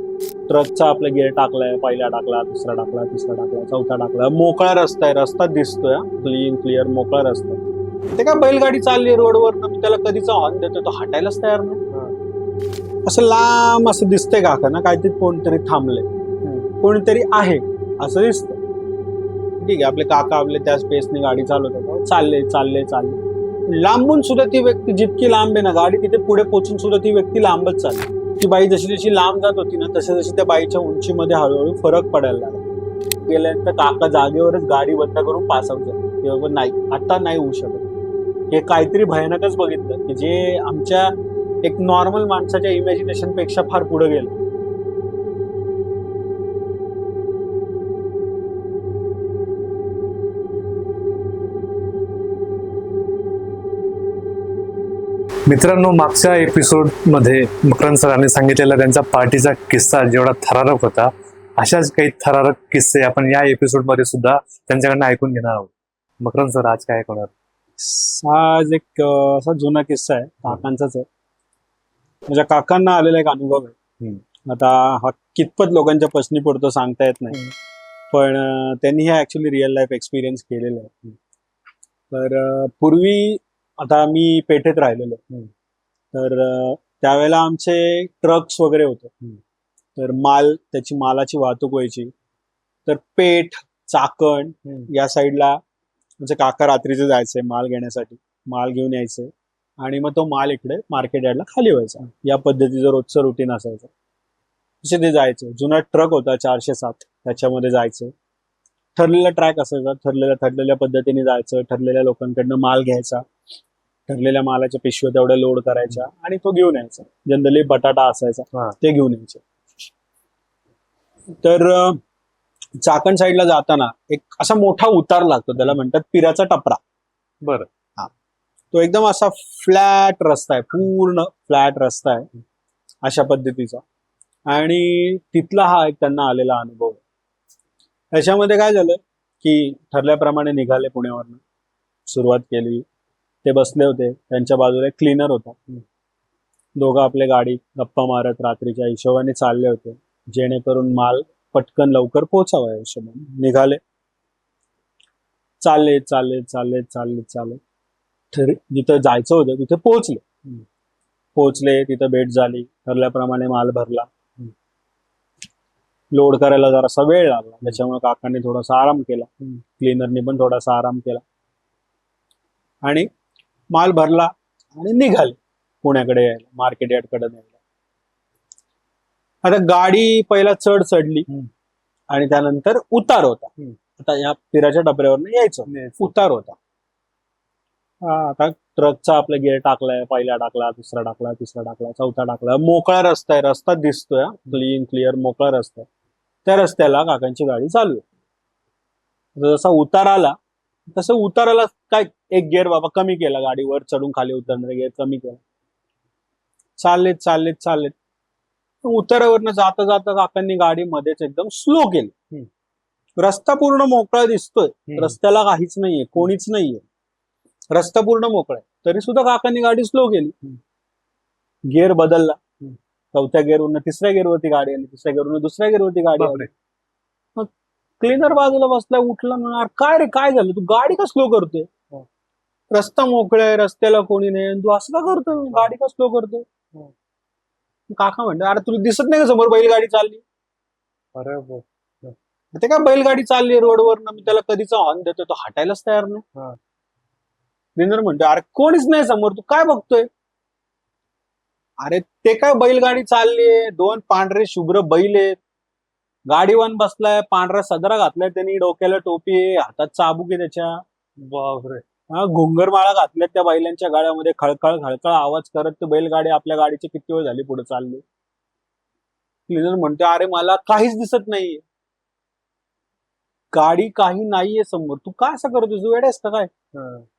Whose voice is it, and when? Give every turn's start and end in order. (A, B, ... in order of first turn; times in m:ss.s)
0:00.5-0:07.6 A
0:08.2-0:11.8 A
0:13.0-0:16.1 A
0:16.4-0:16.7 B
0:16.8-0:18.6 A
0:19.6-0:32.6 A
0:33.3-0:37.9 A
0:38.5-0:44.4 A
0:55.5-1:07.3 B
1:07.8-1:11.1 A
1:12.3-1:13.8 A
1:14.4-1:17.4 A
1:18.1-1:21.2 A
1:22.1-1:25.2 A
1:26.1-1:29.2 A
1:30.0-1:32.1 A
1:32.9-1:35.6 A
1:36.2-1:43.9 A
1:44.8-1:48.1 A
1:49.0-1:53.3 A
1:54.1-1:59.4 A
2:01.4-2:02.0 A
2:02.8-2:06.8 A
2:07.4-2:07.7 B
2:08.7-2:12.3 A
2:13.0-2:13.8 A
2:14.5-2:17.0 A
2:18.1-2:21.4 A
2:22.1-2:22.9 A
2:23.4-2:25.8 A
2:26.8-2:33.8 A
2:35.6-2:37.6 A
2:38.3-2:40.2 A
2:41.4-2:44.1 A
2:46.1-2:51.2 A
2:53.7-2:57.5 A
2:59.4-3:01.3 A
3:02.1-3:06.6 A
3:05.7-3:06.1 B
3:08.0-3:15.9 A
3:16.4-3:18.1 A
3:19.4-3:20.4 A
3:20.9-3:25.4 A
3:26.8-3:27.9 A
3:28.8-3:32.2 A
3:33.2-3:36.8 A
3:34.9-3:35.2 B
3:37.7-3:40.4 A
3:41.7-3:42.4 A
3:43.1-3:46.5 A
3:46.2-3:46.5 B
3:48.0-3:51.7 A
3:52.7-3:56.5 A
3:57.9-4:00.2 A
4:01.2-4:02.2 B
4:02.6-4:06.2 A
4:07.8-4:10.1 A
4:11.8-4:15.4 A
4:16.3-4:20.8 A
4:21.2-4:21.8 B
4:22.1-4:28.0 A
4:29.5-4:31.6 A
4:33.5-4:36.5 A
4:36.7-4:37.1 B